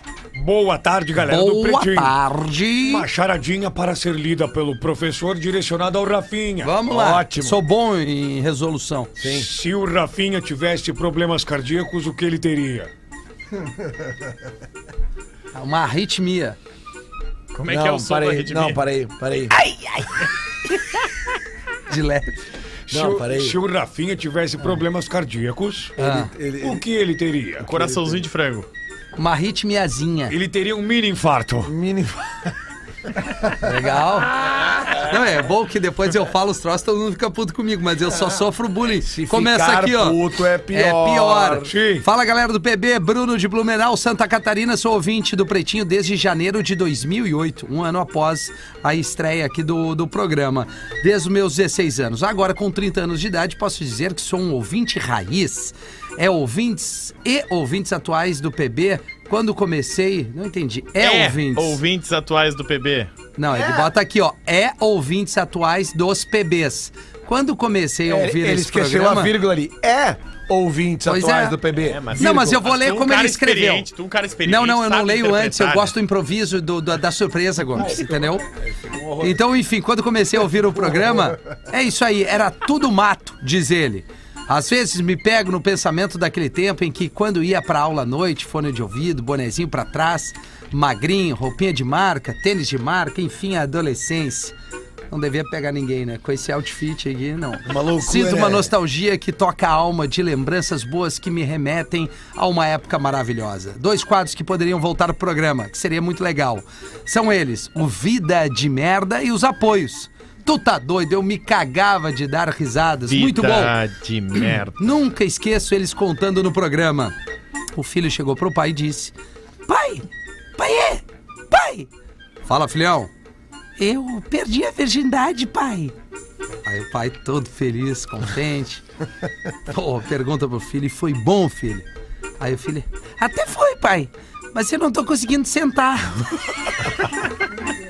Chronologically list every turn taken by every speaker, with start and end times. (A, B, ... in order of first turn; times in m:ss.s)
0:00.4-0:02.2 A
0:01.3-0:03.1 B
0:02.8-0:06.7 A
0:06.6-0:09.2 B
0:06.8-0:07.6 C
0:09.2-0:09.5 C
0:09.2-0:12.9 A
0:15.5-0:16.6 B
0:17.5-0:18.8 D
0:17.7-0:19.6 C
0:19.6-0:20.3 B
0:21.9-0:22.4 B
0:22.9-0:26.0 A
0:22.9-0:23.6 C
0:26.0-0:26.3 B
0:26.0-0:26.8 C
0:26.6-0:27.7 A
0:27.6-0:28.7 D
0:27.8-0:28.3 C
0:29.2-0:30.4 B
0:30.3-0:31.7 A
0:31.6-0:32.5 C
0:33.6-0:40.2 B
0:38.9-0:41.7 C
0:40.7-1:01.8 B
0:41.7-0:42.1 A
1:01.0-1:03.1 D
1:03.4-1:09.4 B
1:03.5-1:03.9 C
1:08.1-1:12.6 C
1:11.1-1:11.6 B
1:11.9-1:15.9 D
1:12.2-1:13.9 B
1:14.4-1:18.5 B
1:17.7-1:19.4 C
1:19.2-1:34.5 B
1:35.1-1:53.8 B
1:37.7-1:38.7 C
1:53.1-1:54.8 D
1:54.8-1:57.1 B
1:57.8-1:59.1 B
1:59.7-2:00.1 B
2:00.6-2:01.9 B
2:02.5-2:03.1 B
2:03.8-2:05.9 B
2:06.6-2:08.8 B
2:09.7-2:11.8 B
2:12.4-2:16.5 B